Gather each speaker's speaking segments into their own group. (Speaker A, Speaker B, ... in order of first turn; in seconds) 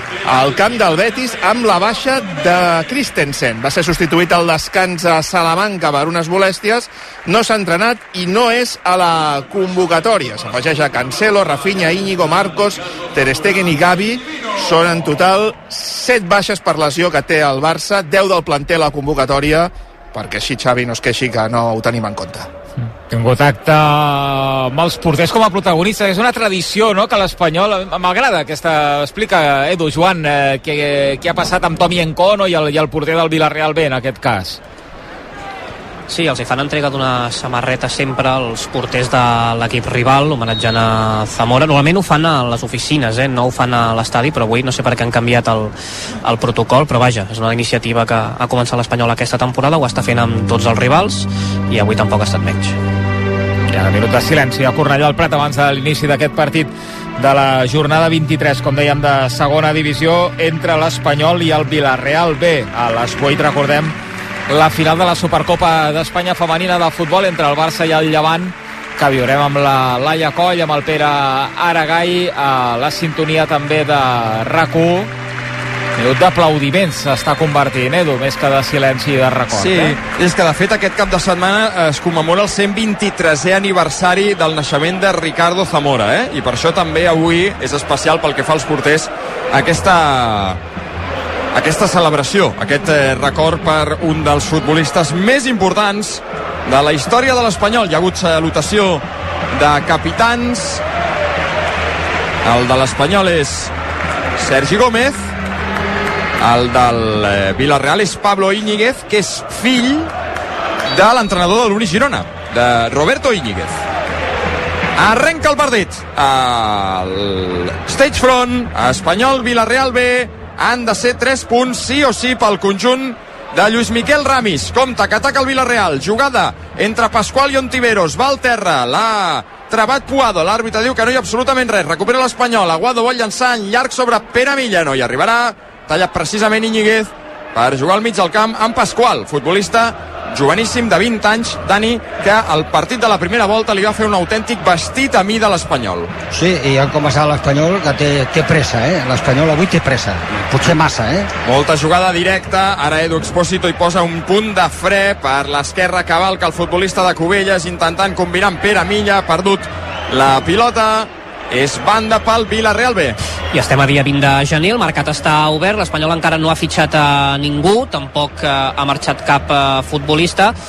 Speaker A: 0.2-22.5
Speaker B: 23.1-34.6, 53.7-63.9, 64.5-75.1, 76.0-80.0
Speaker C: 36.1-45.7, 46.2-52.8, 163.5-170.5
Speaker D: 79.5-90.6, 91.5-100.8, 102.4-103.7, 104.4-105.3, 106.4-110.1, 110.9-113.8, 115.0-146.1, 151.4-163.2
Speaker E: 146.3-151.3